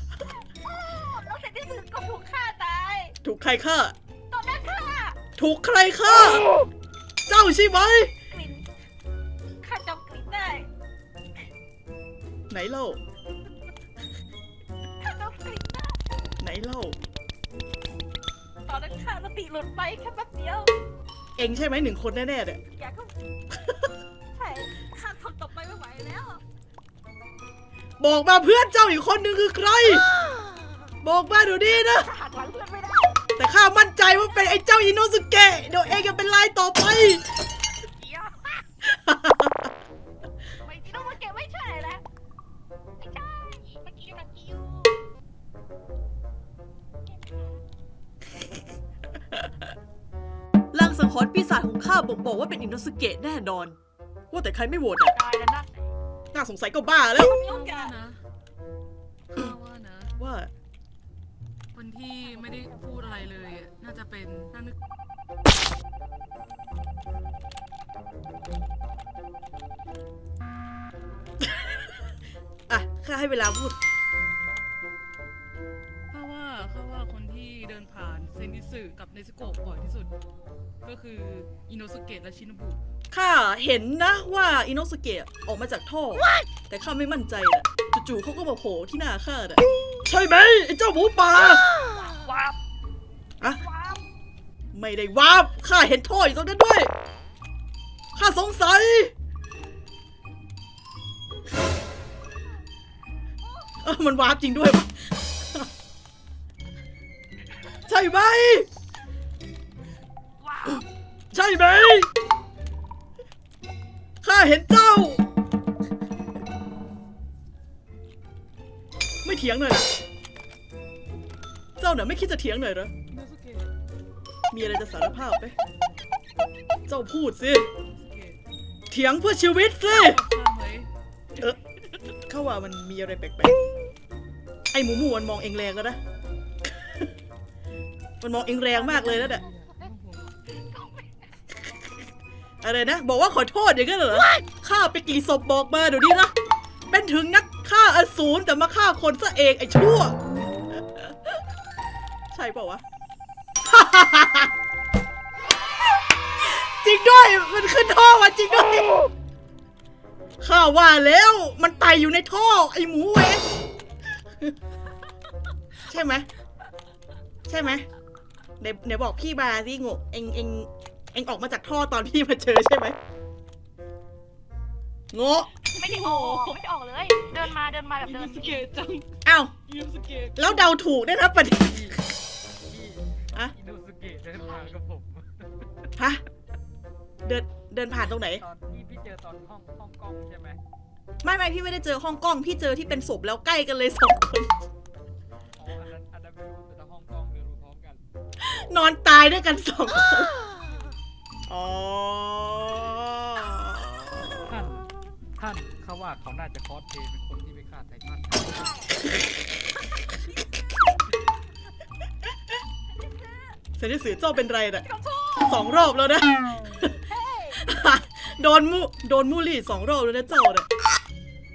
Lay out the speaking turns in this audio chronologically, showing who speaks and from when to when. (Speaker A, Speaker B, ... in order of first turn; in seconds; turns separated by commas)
Speaker A: 0.3-3.1, Speaker B: 3.2-3.9, Speaker A: 4.3-5.2, Speaker B: 5.4-6.5, Speaker B: 7.3-8.1, Speaker A: 8.3-8.7, Speaker A: 9.6-10.7, Speaker B: 12.5-13.0, Speaker A: 15.0-16.0, Speaker B: 16.4-17.0, Speaker A: 18.7-20.7, Speaker B: 21.4-22.6, Speaker A: 22.7-23.1, Speaker A: 24.3-26.4, Speaker B: 28.0-30.1, Speaker B: 31.0-32.1, Speaker A: 31.8-33.2, Speaker B: 33.4-37.2, Speaker A: 38.0-38.6, Speaker B: 38.8-39.7, Speaker A: 40.6-42.0, Speaker A: 43.0-45.0, Speaker A: 47.1-47.6, Speaker B: 50.7-53.8, Speaker B: 54.3-55.2, Speaker A: 55.1-55.9, Speaker B: 56.3-57.4, Speaker A: 57.2-57.9, Speaker C: 57.5-58.2, Speaker C: 59.3-60.1, Speaker B: 60.2-60.5, Speaker C: 61.7-64.8, Speaker B: 71.4-71.8, Speaker B: 72.7-73.8, Speaker C: 76.1-80.1, Speaker C: 80.8-82.8, Speaker B: 83.1-91.7, Speaker C: 92.1-92.5, Speaker A: 93.6-94.0, Speaker B: 94.7-96.9, Speaker B: 98.1-99.1, Speaker A: 103.4-103.7, Speaker B: 103.8-105.7, Speaker B: 107.8-108.7, Speaker A: 110.4-110.8, Speaker B: 111.3-112.1, Speaker B: 114.2-115.2, Speaker B: 119.2-119.9, Speaker B: 121.8-122.9, Speaker C: 123.1-123.7, Speaker B: 124.5-125.5, Speaker B: 126.9-127.7, Speaker C: 127.9-128.4, Speaker B: 128.9-130.2, Speaker C: 129.8-130.9, Speaker B: 132.3-133.6, Speaker B: 134.7-136.0, Speaker B: 136.8-137.1, Speaker B: 138.2-139.4, Speaker C: 138.7-140.3, Speaker A: 140.8-141.0, Speaker B: 142.6-146.3, Speaker B: 146.9-150.2, Speaker B: 150.7-151.4, Speaker B: 152.3-152.8, Speaker B: 153.7-154.5, Speaker B: 156.3-159.0, Speaker B: 160.4-163.5, Speaker B: 165.8-166.3, Speaker B: 167.5-167.8, Speaker B: 168.6-172.9, Speaker B: 175.1-175.5, Speaker A: 175.7-178.7, Speaker C: 175.8-176.6, Speaker C: 178.0-179.1, Speaker B: 179.2-179.5, Speaker C: 179.7-180.7, Speaker B: 180.3-182.0, Speaker D: 182.7-185.9, Speaker B: 186.0-186.2, Speaker B: 187.2-188.4, Speaker D: 188.2-190.6, Speaker B: 191.2-194.5, Speaker D: 195.6-198.0, Speaker B: 198.4-200.3, Speaker B: 201.5-204.5, Speaker D: 204.4-208.7, Speaker A: 208.5-209.0, Speaker A: 210.1-210.7, Speaker A: 212.9-213.6, Speaker B: 213.8-214.8, Speaker A: 214.8-215.7, Speaker B: 215.4-217.0, Speaker A: 217.1-217.7, Speaker B: 217.6-220.7